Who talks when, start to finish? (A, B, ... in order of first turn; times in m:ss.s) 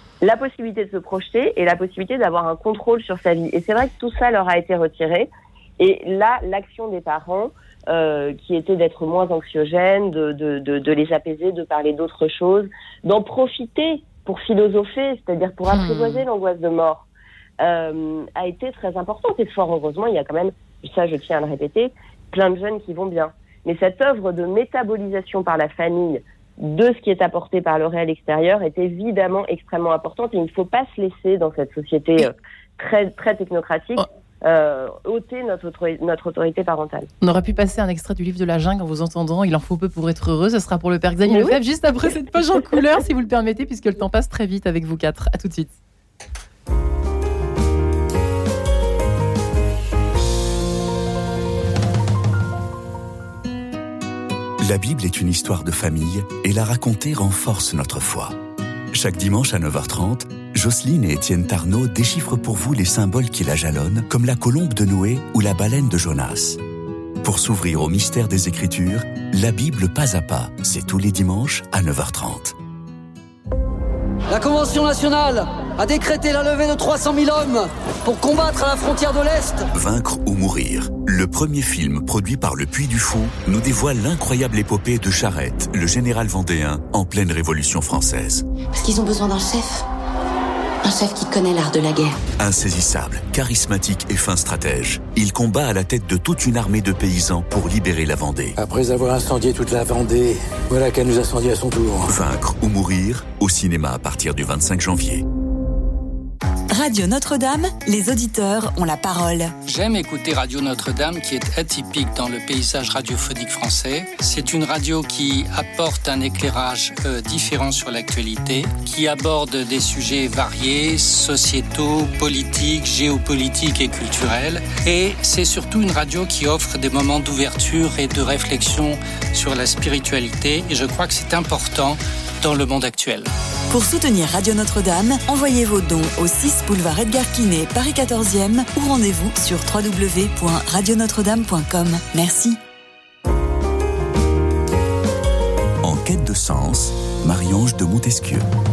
0:00.2-0:17.1 A
0:15.7-0:16.2 B
0:17.6-0:37.1 A
0:37.2-0:45.7 B
0:41.3-0:41.6 A
0:54.6-0:58.3 C
0:58.9-1:06.6 C
1:07.2-1:12.5 C
1:14.3-1:19.7 D
1:19.7-1:28.4 C
1:28.7-1:29.8 E
1:30.8-1:32.2 E
1:32.4-1:38.6 C
1:38.6-1:42.2 F
1:42.1-1:45.2 C
1:46.7-1:49.5 G
1:49.7-2:13.3 H
2:13.7-2:22.6 G
2:25.8-2:28.4 C